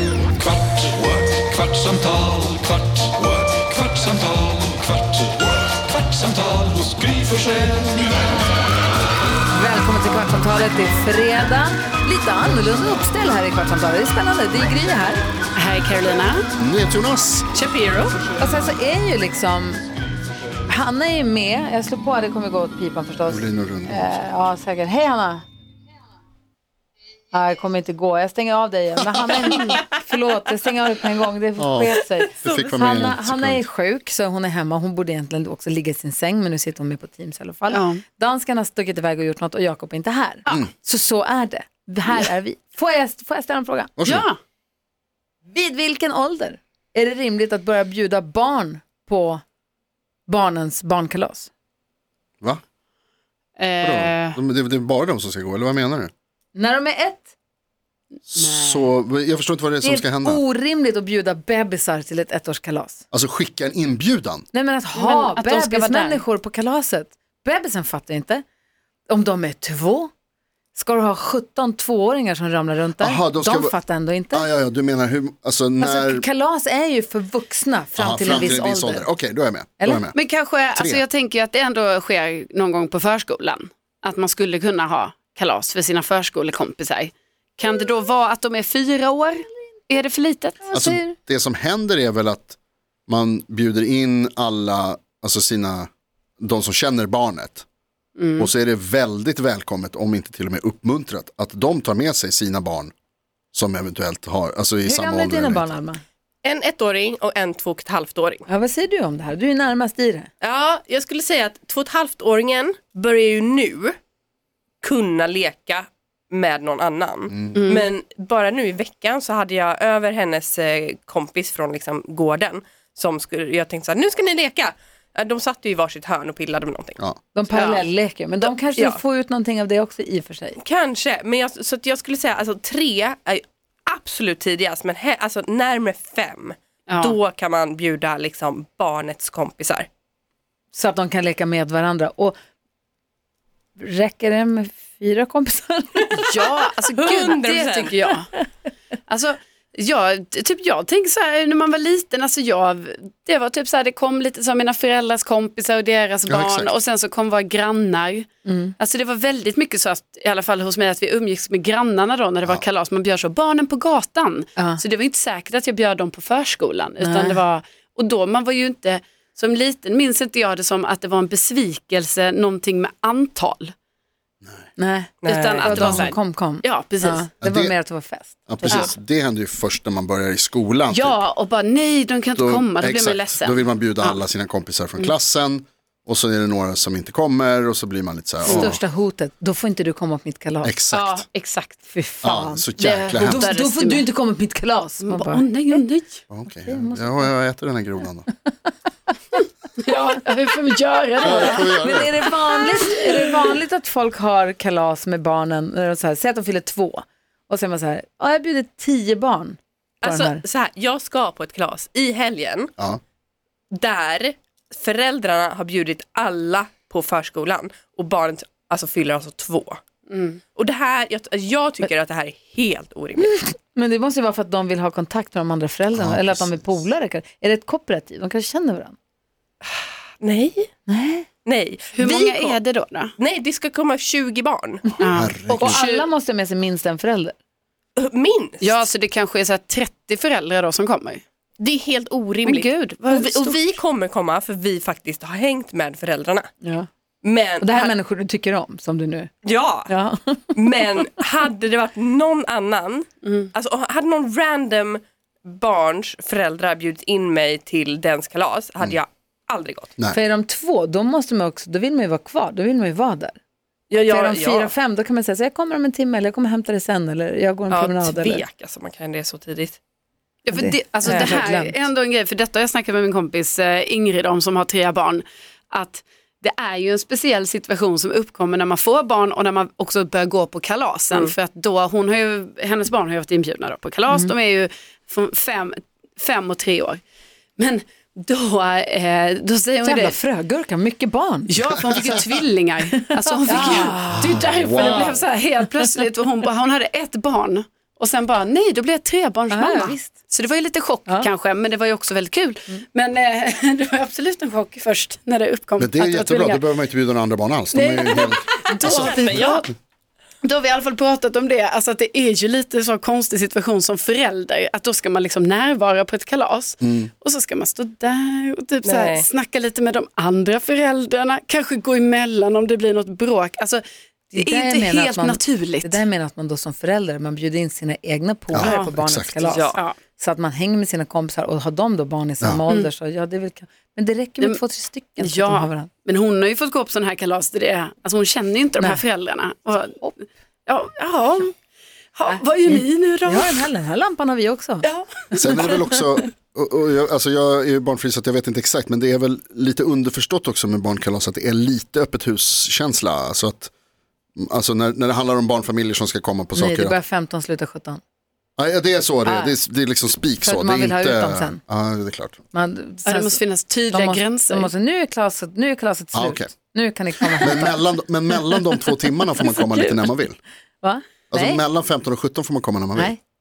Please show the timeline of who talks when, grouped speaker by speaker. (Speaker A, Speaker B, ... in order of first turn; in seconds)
Speaker A: 1.2-4.8, 6.1-7.2
Speaker B: 9.5-15.2, 18.4-19.8, 20.7-25.4, 27.3-44.0, 45.5-49.4, 50.3-51.5, 56.5-57.3, 59.8-63.0, 64.5-68.4, 69.1-70.1, 70.7-74.5, 75.8-79.1, 90.6-91.2, 104.8-106.0, 108.5-110.3, 127.3-130.6, 140.7-142.4, 143.8-146.3, 158.5-158.7, 167.0-167.4, 174.8-178.9, 188.5-190.8, 191.9-195.8, 196.6-197.3, 201.2-210.4, 223.3-229.0, 230.9-231.3, 235.5-237.3, 246.6-246.9, 247.6-249.3, 249.9-250.5, 260.1-263.4, 264.1-268.4, 270.5-271.8, 289.8-291.5, 292.9-295.1, 299.5-300.1, 324.3-335.9, 342.3-344.9, 356.5-358.0, 359.2-359.6, 360.4-361.6, 362.5-367.8, 370.8-371.6
Speaker C: 15.6-16.5, 37.7-38.0, 44.0-44.4, 53.6-54.4, 58.4-58.9, 64.9-66.2, 80.1-90.6, 98.2-98.5, 117.5-117.9, 127.5-127.8, 136.9-137.2, 146.2-148.3, 149.1-158.3, 158.8-173.7, 175.2-177.3, 180.9-184.2, 188.5-188.7, 190.9-191.9, 192.8-194.1, 195.0-196.2, 199.8-201.8, 220.1-220.4, 231.9-233.1, 235.0-235.3, 238.6-241.2, 242.4-243.6, 270.4-287.0, 287.6-290.1, 291.5-306.6, 307.7-309.7, 310.4-323.8, 324.4-326.0, 328.6-328.9, 329.6-329.9, 335.2-340.0, 340.7-341.5, 342.1-343.6, 344.8-345.8, 363.0-364.7
Speaker D: 16.6-17.5, 23.3-24.2, 29.3-29.7, 31.6-33.6, 44.0-44.3, 53.8-56.1, 58.3-60.4, 63.1-64.4, 73.0-73.7, 74.3-76.2, 78.0-80.2, 80.7-81.0, 90.7-92.6, 93.1-97.6, 98.4-102.9, 103.5-105.8, 117.3-117.5, 156.3-156.7, 177.4-177.8, 178.5-181.2, 182.4-188.8, 190.6-191.2, 192.2-193.5, 196.3-198.3, 201.2-202.3, 225.9-226.8, 235.1-235.8, 294.6-295.1, 305.8-309.6, 316.8-317.1, 328.5-329.4, 345.3-353.7, 354.4-357.0, 358.6-362.4, 366.1-366.5, 367.3-370.4, 371.3-373.1
Speaker E: 17.6-18.1, 106.4-108.4, 110.4-114.0, 114.8-127.0, 128.5-129.0, 130.6-139.9, 147.0-148.0, 175.2-176.1, 210.0-212.7, 213.7-219.8, 220.5-223.4, 230.2-230.7, 231.4-232.6, 233.2-235.0, 238.0-238.8, 241.6-246.5, 247.2-247.9, 249.4-249.9, 250.5-259.9, 263.9-264.7, 267.7-269.8, 271.1-271.5, 308.8-309.6, 318.8-319.3, 329.4-329.8